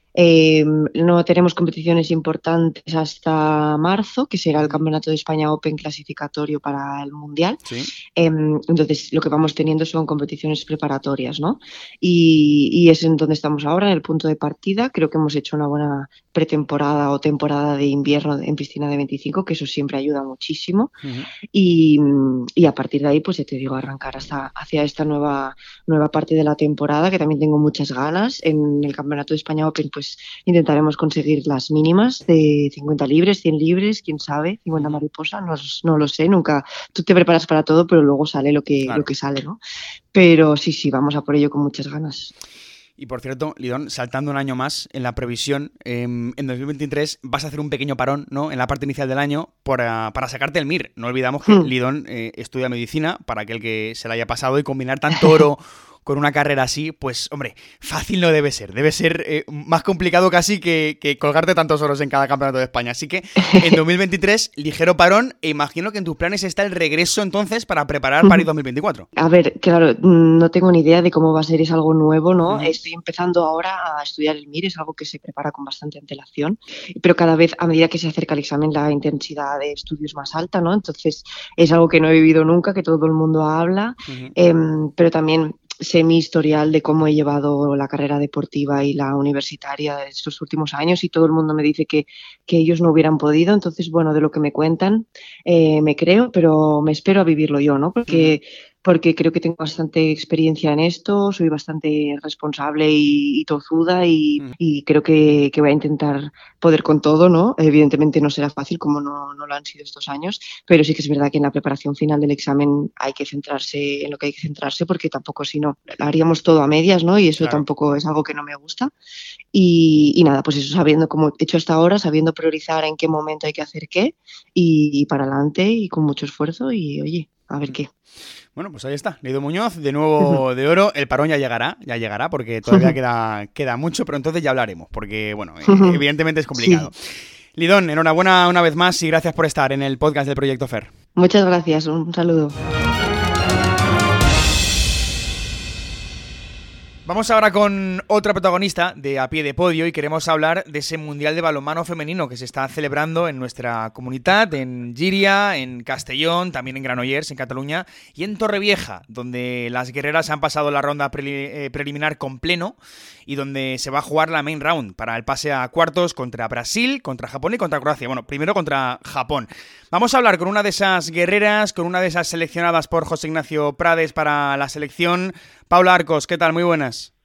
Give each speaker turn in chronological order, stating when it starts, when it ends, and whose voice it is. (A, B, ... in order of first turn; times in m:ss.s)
0:00.1-0:07.6 A
0:08.1-0:21.0 A
0:21.0-0:21.3 B
0:21.5-0:39.6 A
0:34.8-0:35.0 B
0:40.1-0:42.3 A
0:43.0-1:09.1 B
0:51.4-0:51.7 A
1:03.5-1:03.8 A
1:09.2-1:58.9 A
1:12.4-1:12.8 B
1:24.1-1:24.3 B
1:38.1-1:38.4 B
1:57.4-1:57.6 B
1:59.5-2:07.9 A
2:08.6-2:16.9 B
2:12.7-2:13.0 A
2:15.6-2:16.0 A
2:16.5-2:16.9 A
2:17.5-2:20.9 B
2:21.2-2:22.6 A
2:27.0-2:42.8 B
2:43.3-2:57.1 B